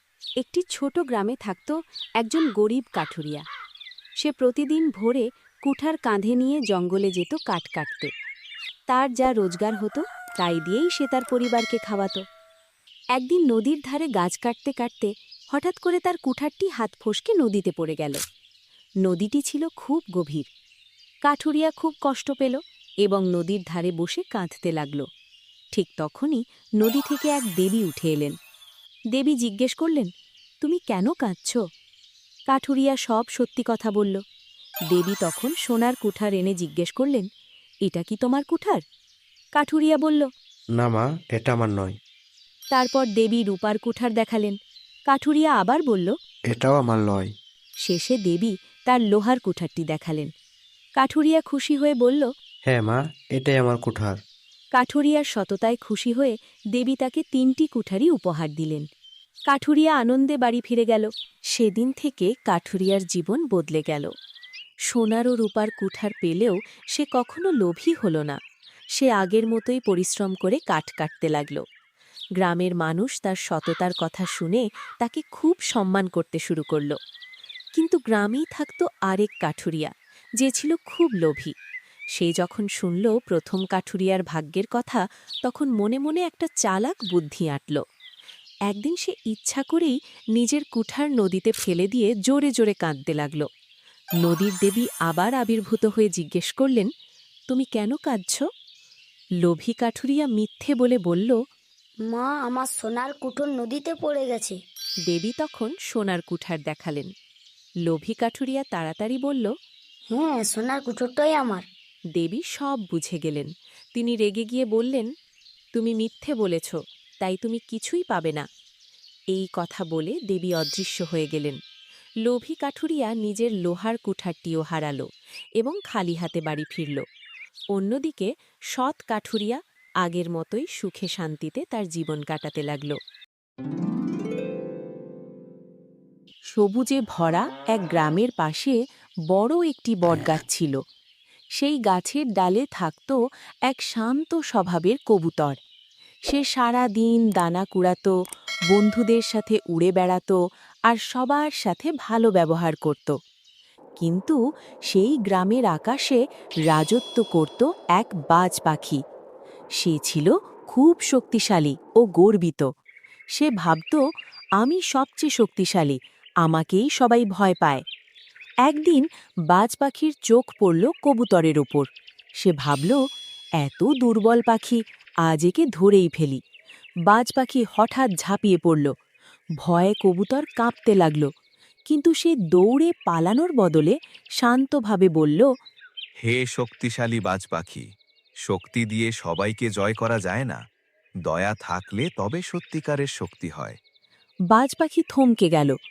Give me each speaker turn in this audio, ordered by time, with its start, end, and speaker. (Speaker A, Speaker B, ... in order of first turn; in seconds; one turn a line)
Speaker A: 0.4-3.4
Speaker A: 4.2-8.1
Speaker A: 8.9-12.2
Speaker A: 13.2-18.2
Speaker A: 19.0-20.5
Speaker A: 21.3-25.1
Speaker A: 25.7-28.4
Speaker A: 29.1-30.1
Speaker A: 30.6-31.6
Speaker A: 32.5-34.2
Speaker A: 34.9-37.3
Speaker A: 37.8-38.8
Speaker A: 39.5-40.3
Speaker B: 40.8-42.0
Speaker A: 42.7-44.6
Speaker A: 45.1-46.1
Speaker B: 46.5-47.3
Speaker A: 47.8-50.3
Speaker A: 51.0-52.3
Speaker B: 52.7-54.2
Speaker A: 54.7-58.9
Speaker A: 59.5-64.1
Speaker A: 64.9-68.4
Speaker A: 69.0-71.6
Speaker A: 72.4-77.0
Speaker A: 77.8-81.5
Speaker A: 82.2-87.8
Speaker A: 88.7-93.5
Speaker A: 94.2-96.9
Speaker A: 97.5-98.5
Speaker A: 99.4-101.4
Speaker C: 102.1-104.6
Speaker A: 105.1-107.1
Speaker A: 107.8-109.5
Speaker C: 110.1-111.7
Speaker A: 112.1-115.1
Speaker A: 115.7-118.5
Speaker A: 119.3-121.6
Speaker A: 122.2-125.0
Speaker A: 125.6-127.0
Speaker A: 127.7-133.0
Speaker A: 136.5-138.8
Speaker A: 139.3-140.8
Speaker A: 141.6-145.6
Speaker A: 146.3-148.1
Speaker A: 148.7-153.2
Speaker A: 154.0-159.0
Speaker A: 159.8-162.7
Speaker A: 163.3-164.0
Speaker A: 164.6-167.8
Speaker A: 168.7-171.9
Speaker A: 172.4-173.0
Speaker A: 173.6-176.4
Speaker A: 177.1-178.9
Speaker A: 179.6-181.3
Speaker A: 181.9-185.5
Speaker D: 186.2-187.9
Speaker D: 188.5-190.6
Speaker D: 191.2-193.8
Speaker A: 194.5-195.8